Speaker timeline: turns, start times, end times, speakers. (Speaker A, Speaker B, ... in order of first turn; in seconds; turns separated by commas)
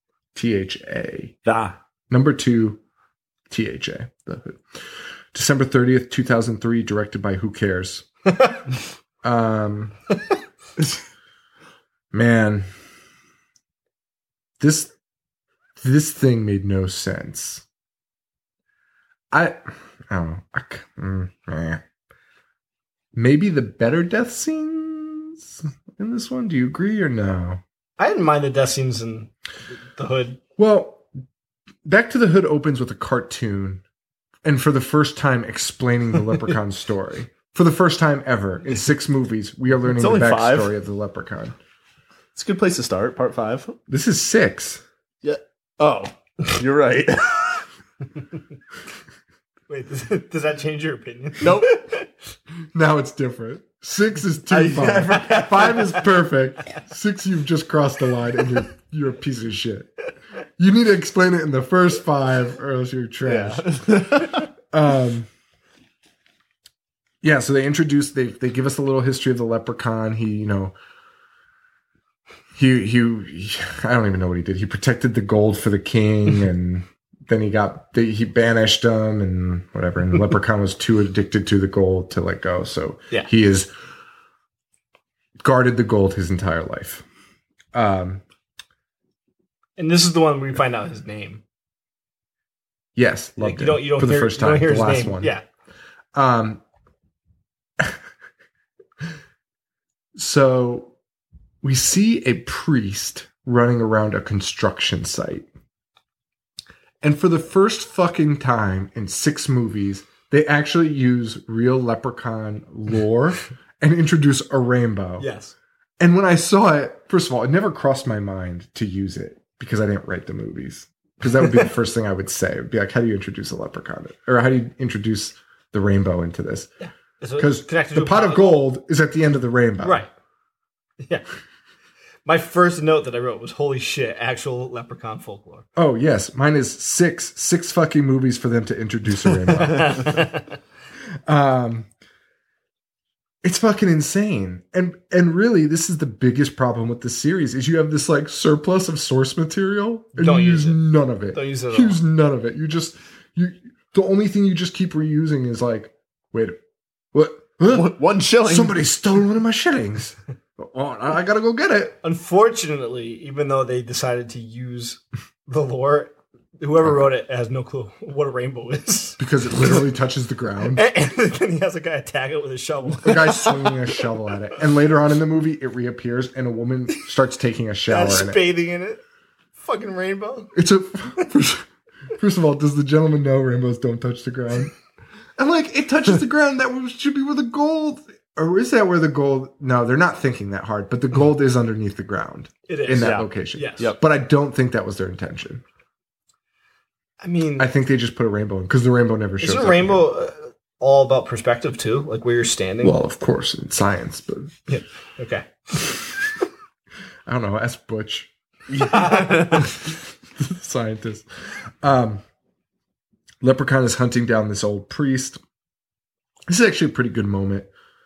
Speaker A: 0.3-1.3, Speaker B: 1.4-1.8, Speaker A: 2.1-2.8, Speaker A: 3.5-4.6, Speaker A: 5.3-8.1, Speaker A: 9.2-10.0, Speaker A: 12.1-12.7, Speaker A: 14.6-14.9, Speaker A: 15.8-17.6, Speaker A: 19.3-21.8, Speaker A: 23.1-27.6, Speaker C: 28.0-29.3, Speaker C: 29.9-30.4, Speaker A: 30.6-31.0, Speaker A: 31.8-33.8, Speaker A: 34.4-41.5, Speaker B: 39.9-40.7, Speaker B: 42.3-43.8, Speaker A: 43.9-44.8, Speaker B: 45.2-47.6, Speaker C: 49.7-52.0, Speaker B: 51.4-51.8, Speaker A: 52.7-59.9, Speaker B: 54.5-56.1, Speaker A: 60.6-65.3, Speaker B: 63.2-64.5, Speaker A: 67.2-70.7, Speaker A: 72.5-83.7, Speaker A: 85.4-87.0, Speaker A: 87.7-88.2, Speaker C: 89.8-91.4, Speaker A: 92.9-95.3, Speaker C: 93.4-95.4, Speaker A: 96.1-96.6, Speaker A: 100.1-100.9, Speaker A: 101.6-105.5, Speaker A: 107.0-115.3, Speaker C: 115.2-115.5, Speaker A: 116.0-126.7, Speaker C: 126.8-128.6, Speaker A: 127.4-130.1, Speaker C: 129.8-130.1, Speaker C: 132.2-135.6, Speaker A: 135.8-140.3, Speaker C: 139.7-140.3, Speaker A: 141.2-141.9, Speaker A: 143.4-156.6, Speaker C: 150.1-152.0, Speaker A: 157.1-161.9, Speaker B: 157.7-158.8, Speaker C: 162.0-169.2, Speaker A: 169.2-170.8, Speaker C: 170.7-173.9, Speaker A: 173.0-178.4, Speaker C: 177.9-179.0, Speaker C: 179.6-180.5, Speaker A: 180.5-181.7, Speaker A: 182.2-184.7, Speaker A: 185.4-195.6, Speaker C: 192.7-193.9, Speaker B: 193.0-193.3, Speaker C: 197.2-197.7, Speaker A: 197.6-200.1, Speaker C: 199.4-202.9, Speaker A: 202.8-204.6, Speaker C: 204.7-205.5, Speaker A: 207.2-208.3, Speaker B: 208.7-209.7, Speaker C: 208.9-209.6, Speaker A: 209.6-211.2, Speaker A: 211.8-212.2, Speaker A: 213.4-215.4, Speaker A: 216.5-217.7